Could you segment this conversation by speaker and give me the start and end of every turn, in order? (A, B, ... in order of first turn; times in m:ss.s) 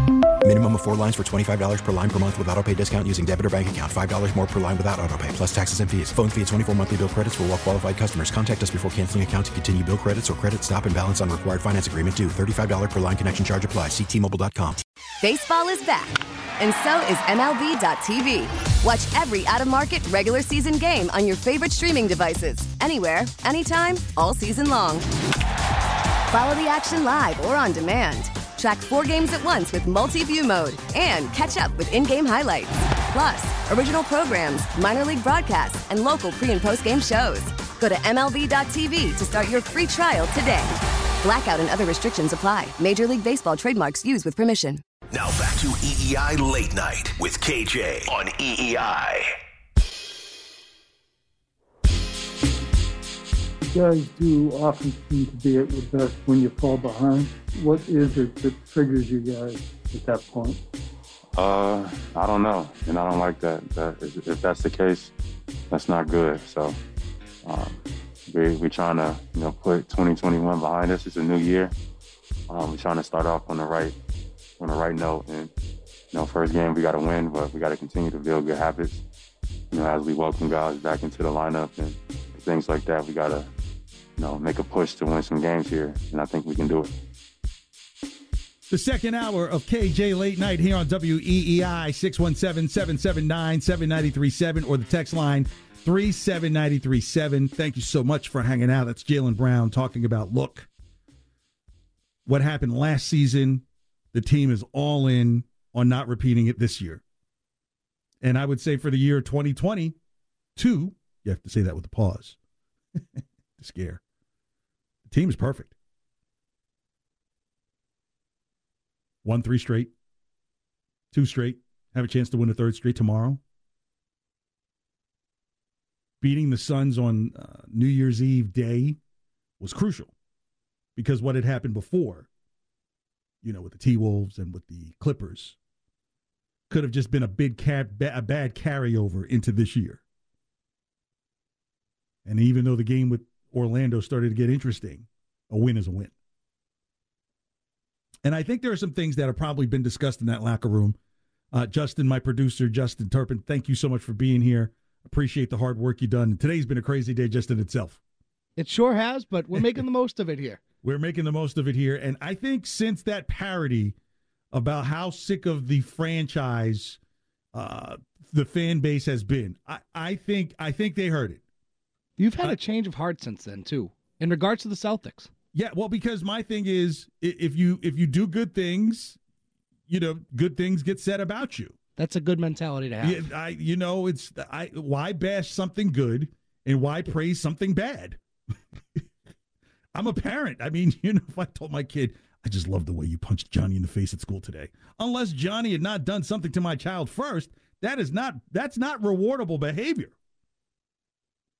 0:00.4-0:14.8 A
0:15.2-0:25.0 B
0:26.3-0:44.8 B
0:45.1-0:49.3 C
0:53.7-1:00.6 D
1:01.3-1:05.1 E
1:05.7-1:06.8 E
1:07.4-1:11.7 E
1:12.5-1:14.0 E
1:14.6-1:15.5 E
1:16.1-1:19.0 E
1:19.7-1:23.5 E
1:24.2-1:26.9 E
1:28.7-1:40.7 F
1:42.2-1:47.0 F
1:48.2-1:50.0 F
1:50.6-1:52.4 F
1:53.0-1:54.0 F
1:55.0-1:55.7 F
1:59.2-1:59.9 F
2:01.1-2:03.4 F
2:06.2-2:09.0 F
2:09.6-2:10.1 F
2:11.0-2:12.3 F
2:13.4-2:15.6 F
2:16.7-2:20.0 F
2:22.2-2:26.1 F
2:28.2-2:31.0 F
2:31.5-2:38.0 F
2:38.6-2:40.6 G
2:40.8-2:44.0 F
2:44.5-2:47.0 F
2:47.5-2:51.4 F
2:52.2-2:55.3 G
2:55.5-2:59.2 F
2:59.9-3:01.8 F
3:02.0-3:03.2 G
3:03.0-3:08.2 F
3:09.9-3:20.1 F